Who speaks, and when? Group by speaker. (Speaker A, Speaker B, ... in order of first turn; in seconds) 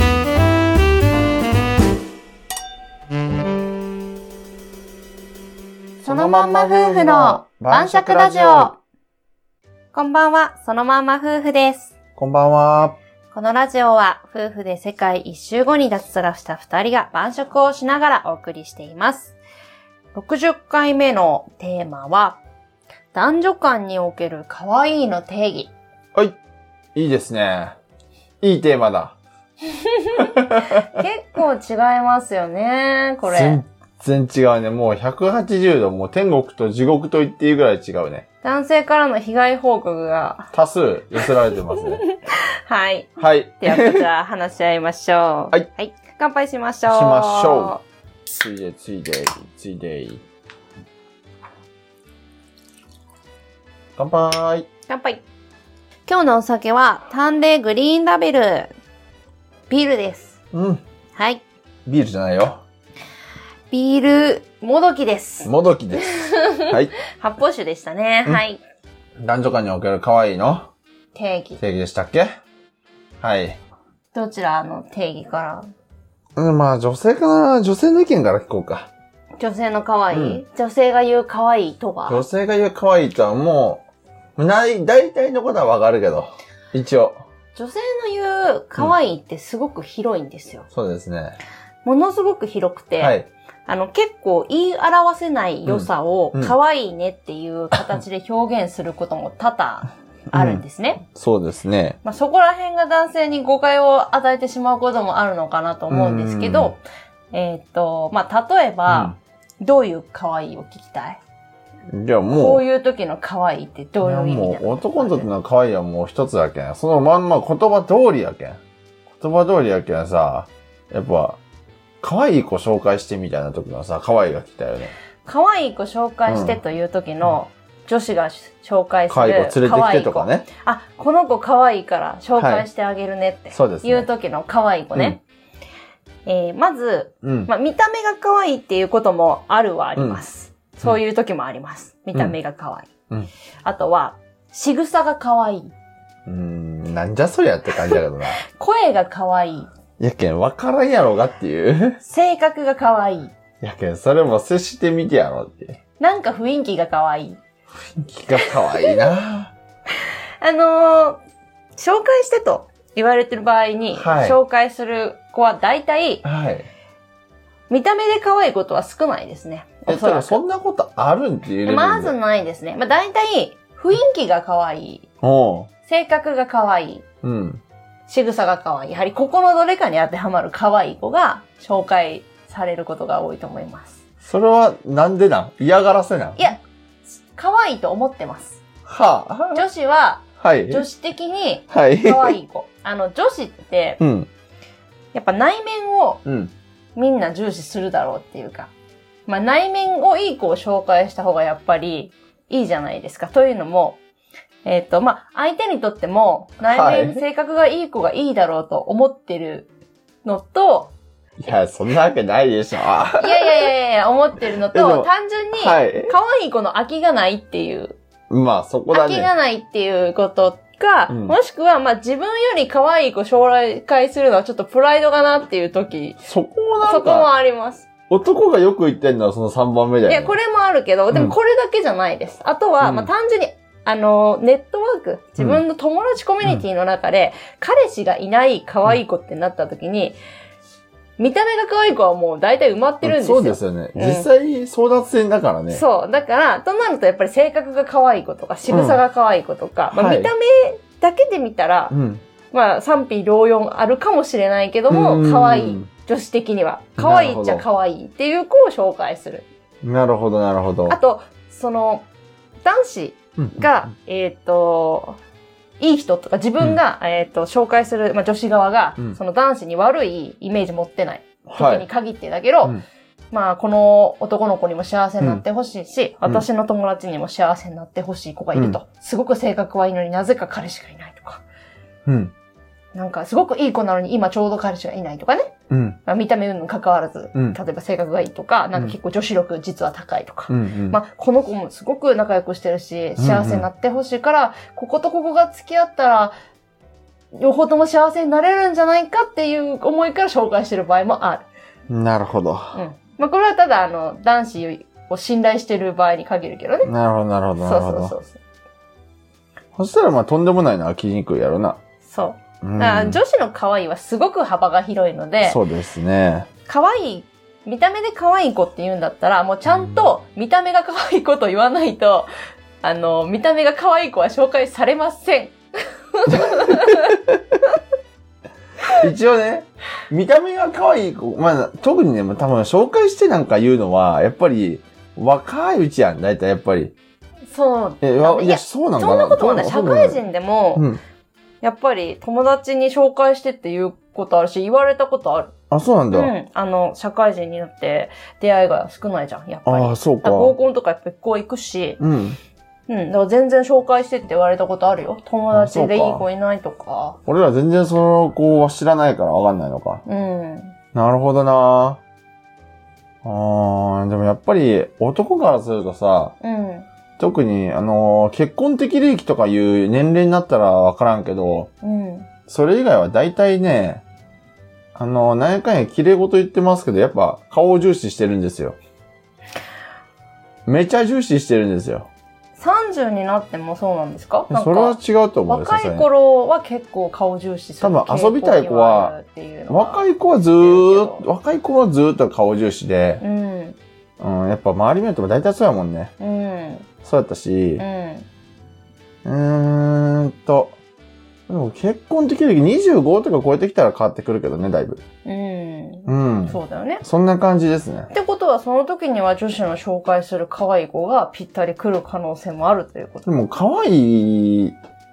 Speaker A: 6.0-8.8, 12.2-13.0, 26.9-27.8, 28.4-29.2, 30.2-30.8, 33.2-38.2, 40.5-42.0, 43.2-44.1, 46.9-50.2, 54.0-54.7, 60.5-60.8, 61.9-62.6, 65.4-66.1, 66.7-66.9, 69.2-70.7, 71.6-72.3, 73.2-73.6, 76.4-78.9, 80.1-80.4, 82.1-83.8, 84.4-87.2, 90.7-91.4, 93.0-93.3, 95.7-96.5, 100.3-102.0, 105.9-106.7, 108.9-109.2, 111.9-112.6, 114.0-118.6, 119.2-121.4, 122.0-124.9, 126.3-126.6, 129.1-130.5, 132.4-132.7, 133.5-134.1, 137.2-137.5, 140.0-140.2, 146.3-148.4, 150.0-152.0, 153.6-155.8, 158.0-159.5, 164.0-164.4, 166.2-166.7, 169.9-172.2, 175.2-175.7, 177.2-177.6, 184.2-186.5, 188.9-189.6, 190.4-190.8, 191.7-192.4, 194.0-194.3, 196.2-196.5, 206.6-207.2, 211.4-213.7, 214.7-216.1, 218.3-219.3, 221.1-221.4, 226.2-227.3, 228.1-230.3, 231.1-231.4, 232.8-233.1, 243.0-245.8, 248.7-249.0, 249.9-250.3, 251.9-252.2, 254.9-255.9, 257.0-257.6, 259.8-261.0, 263.4-263.7, 271.5-271.9, 278.5-278.8, 282.1-282.3, 285.7-286.0, 290.5-291.0, 293.2-293.7, 301.9-302.8, 306.8-308.1, 309.8-311.8, 312.6-313.2, 315.4-316.5, 319.7-320.0, 326.3-327.4, 329.0-336.9, 338.0-340.2, 345.7-346.3, 349.7-350.6, 352.0-352.4, 355.5-356.3, 357.3-360.0, 360.9-362.0, 363.2-366.3, 367.2-371.7, 372.5-374.0, 375.0-378.8, 380.7-382.1, 384.5-386.1, 387.8-389.1, 389.7-393.2, 394.2-396.1, 397.0-397.8, 399.2-400.8, 401.5-405.0, 406.1-408.1, 413.3-414.8
Speaker B: 6.0-8.7, 9.9-11.9, 13.3-19.4, 20.1-22.4, 23.1-25.7, 29.8-33.6, 38.4-40.5, 41.8-47.8, 54.9-55.2, 56.1-58.7, 59.7-60.4, 61.2-61.4, 63.7-68.6, 71.1-71.6, 74.1-75.7, 79.4-82.2, 87.5-90.7, 91.8-93.2, 93.7-101.0, 102.0-106.8, 107.3-111.2, 112.3-115.3, 125.2-135.2, 136.3-142.9, 143.7-145.7, 148.4-149.7, 152.0-153.3, 156.0-157.4, 160.4-161.2, 161.8-166.2, 167.7-170.4, 171.7-175.1, 175.9-177.0, 178.1-184.0, 187.2-188.6, 189.5-194.0, 195.1-196.2, 197.0-198.7, 199.3-204.0, 204.6-209.7, 210.2-210.9, 213.2-218.0, 218.9-226.2, 226.8-227.9, 230.1-240.2, 241.2-244.3, 245.7-251.9, 252.5-259.5, 260.9-262.1, 262.6-265.2, 265.8-272.8, 273.3-281.4, 282.9-285.5, 286.1-296.3, 297.3-301.5, 302.7-306.9, 307.6-308.4, 312.0-315.6, 316.7-322.3, 322.8-325.6, 326.1-327.2, 337.5-340.9, 341.6-345.5, 346.1-352.0, 352.9-357.2, 360.1-360.7, 366.4-366.9, 371.8-372.3, 382.6-385.0, 385.5-391.3, 393.2-393.8, 396.2-396.9, 397.8-398.3, 405.2-407.0, 408.1-413.3